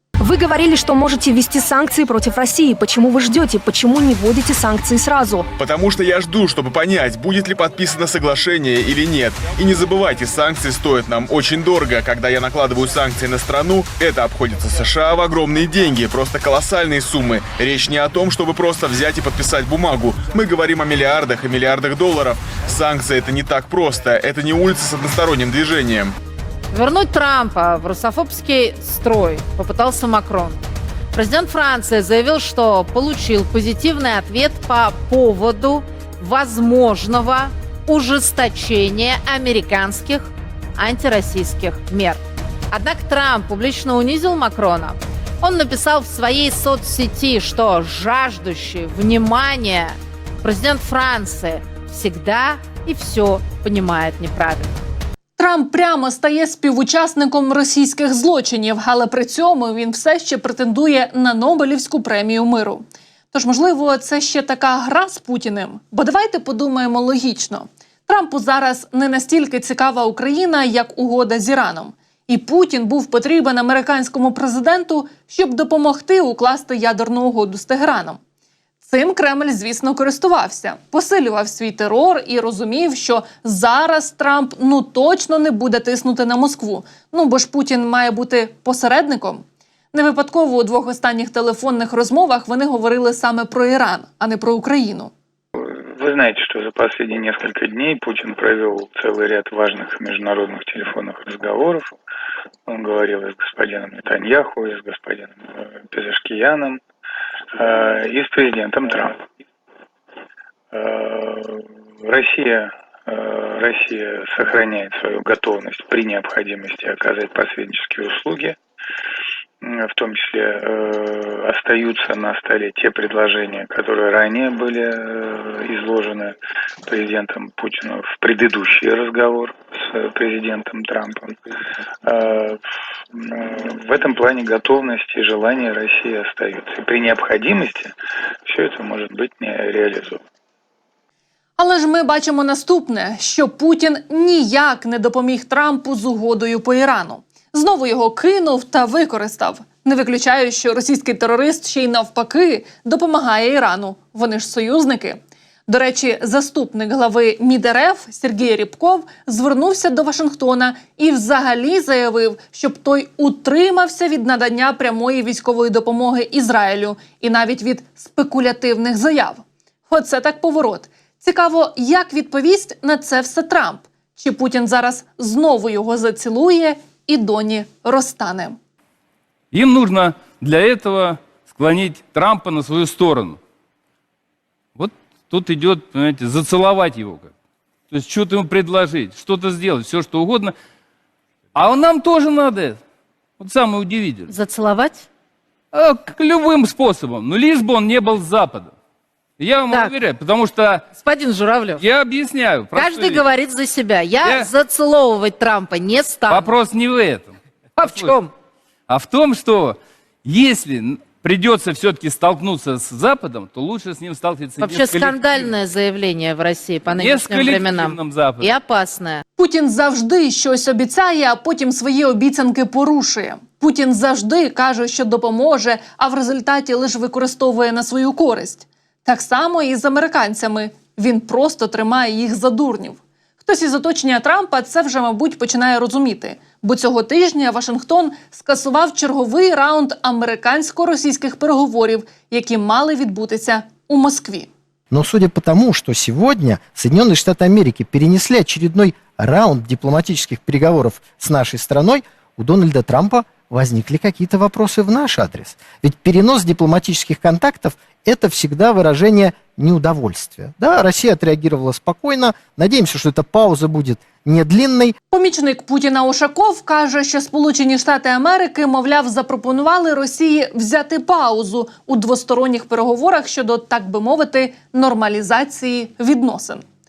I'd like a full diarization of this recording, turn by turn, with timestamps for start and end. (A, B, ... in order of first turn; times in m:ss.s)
0:00.2-0:05.5 A
0:05.6-0:26.2 B
0:26.7-0:30.6 C
0:31.1-0:42.2 C
0:42.7-0:54.8 C
0:55.4-1:18.2 D
1:18.8-1:35.1 D
1:35.6-1:42.0 E
1:42.7-1:46.8 E
1:47.6-1:49.2 E
1:50.7-1:58.6 E
1:59.6-2:06.4 E
2:06.9-2:11.4 E
2:12.0-2:12.6 E
2:13.1-2:17.9 E
2:18.5-2:20.2 E
2:21.6-2:58.6 D
2:59.5-3:03.4 F
3:04.8-3:07.3 F
3:07.9-3:10.5 F
3:11.6-3:12.8 F
3:13.4-3:14.3 F
3:14.3-3:15.1 C
3:15.7-3:18.7 F
3:19.4-3:20.8 F
3:20.9-3:21.8 C
3:21.8-3:23.2 F
3:22.7-3:26.5 C
3:24.2-3:24.5 F
3:26.3-3:28.1 F
3:27.8-3:28.3 C
3:28.9-3:35.5 F
3:34.6-3:39.2 C
3:37.0-3:38.5 F
3:39.4-4:04.5 D
4:04.9-4:25.0 G
4:25.1-4:36.6 D